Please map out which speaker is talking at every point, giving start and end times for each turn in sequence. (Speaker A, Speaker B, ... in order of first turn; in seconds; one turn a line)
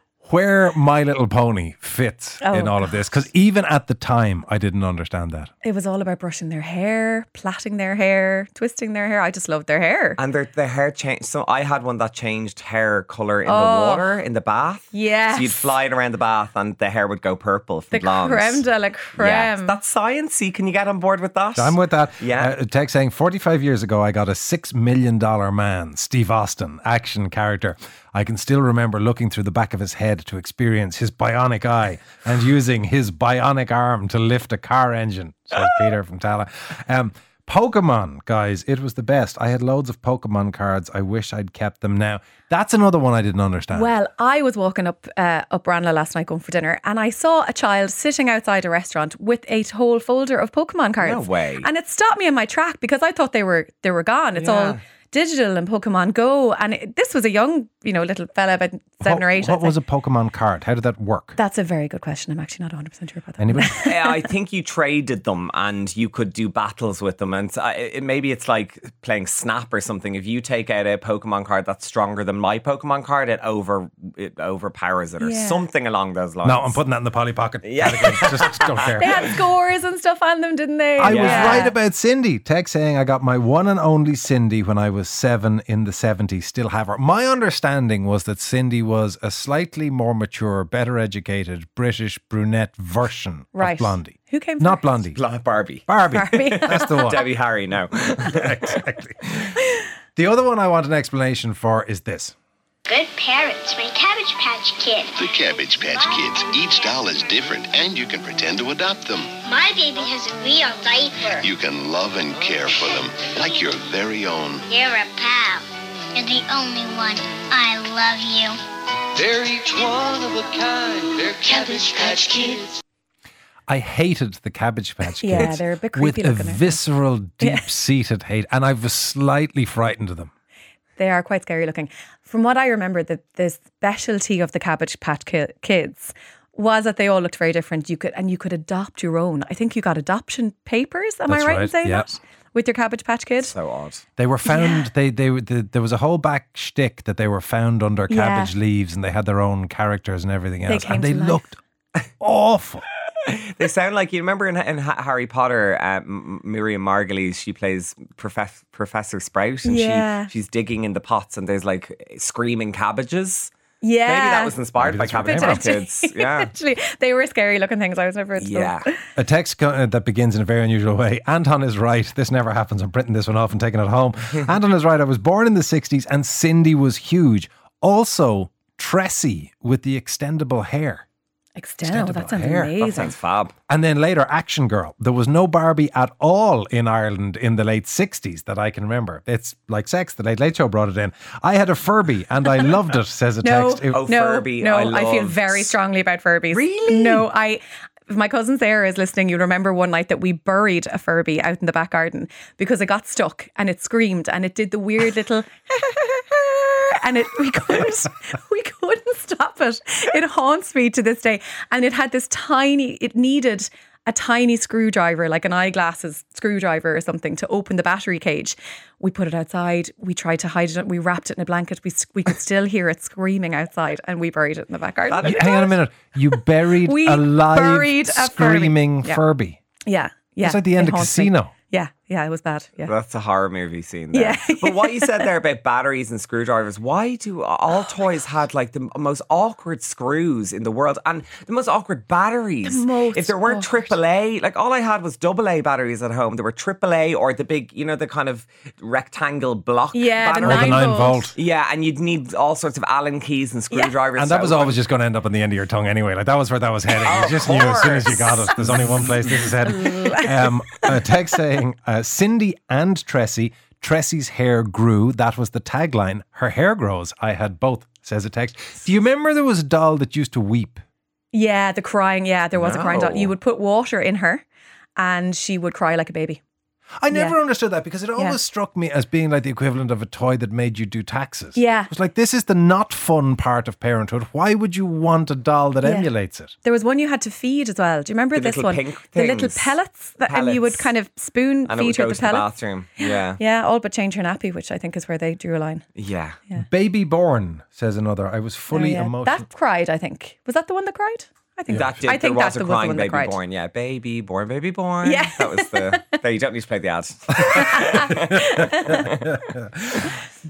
Speaker A: 0.2-5.5
Speaker B: 2.4-3.0
Speaker B: 5.6-10.2
Speaker C: 10.2-22.5
Speaker B: 13.4-14.1
Speaker B: 14.9-15.7
Speaker B: 17.9-19.8
Speaker A: 21.6-43.9
Speaker B: 43.7-59.8
Speaker C: 51.0-51.7
Speaker C: 54.4-54.8
Speaker A: 59.0-61.3
Speaker B: 61.4-64.2
Speaker A: 63.4-63.8
Speaker C: 63.8-76.8
Speaker B: 75.2-75.6
Speaker A: 76.4-79.3
Speaker C: 77.6-78.8
Speaker B: 79.0-81.7
Speaker A: 81.0-95.2
Speaker C: 81.0-81.7
Speaker B: 93.5-95.0
Speaker C: 95.1-98.8
Speaker A: 95.8-97.3
Speaker B: 96.1-97.2
Speaker A: 98.2-99.6
Speaker A: 100.1-102.3
Speaker D: 102.8-106.7
Speaker E: 105.1-109.3
Speaker D: 109.4-111.5
Speaker E: 111.4-114.7
Speaker D: 114.7-118.6
Speaker F: 119.4-120.5
Speaker D: 121.4-122.6
Speaker F: 121.5-122.5
Speaker A: 123.7-130.3
Speaker B: 125.2-126.8
Speaker B: 127.4-127.7
Speaker B: 131.0-143.5
Speaker A: 141.3-142.1
Speaker C: 143.4-144.0
Speaker A: 144.2-151.6
Speaker B: 144.4-144.8
Speaker B: 148.1-148.5
Speaker B: 150.7-151.5
Speaker A: 152.2-152.8
Speaker C: 153.3-163.5
Speaker B: 159.6-160.3
Speaker B: 163.8-164.6
Speaker C: 164.0-166.5
Speaker A: 164.8-165.7
Speaker B: 165.2-169.0
Speaker C: 168.4-168.9
Speaker A: 169.2-181.0
Speaker B: 181.6-183.1
Speaker A: 181.8-182.8
Speaker C: 182.8-183.5
Speaker A: 183.7-194.0
Speaker B: 193.4-225.7
Speaker C: 193.9-195.7
Speaker C: 196.5-197.3
Speaker C: 225.1-225.6
Speaker A: 225.2-229.6
Speaker B: 226.8-229.2
Speaker B: 229.8-232.9
Speaker A: 230.4-231.5
Speaker C: 232.8-254.8
Speaker B: 234.1-235.3
Speaker B: 242.6-243.9
Speaker B: 249.9-251.3
Speaker A: 250.4-251.3
Speaker A: 254.1-270.8
Speaker C: 257.0-259.5
Speaker B: 259.6-260.8
Speaker B: 271.3-274.4
Speaker C: 272.5-273.3
Speaker B: 275.0-276.4
Speaker A: 277.0-286.5
Speaker B: 277.1-277.4
Speaker B: 281.5-281.9
Speaker B: 285.8-286.1
Speaker B: 286.6-295.9
Speaker C: 288.3-289.8
Speaker C: 290.3-290.9
Speaker C: 291.6-293.4
Speaker C: 295.9-296.4
Speaker A: 296.6-299.4
Speaker B: 298.7-303.4
Speaker A: 301.7-302.0
Speaker C: 301.7-309.4
Speaker B: 305.0-306.0
Speaker B: 307.7-308.1
Speaker A: 308.4-310.0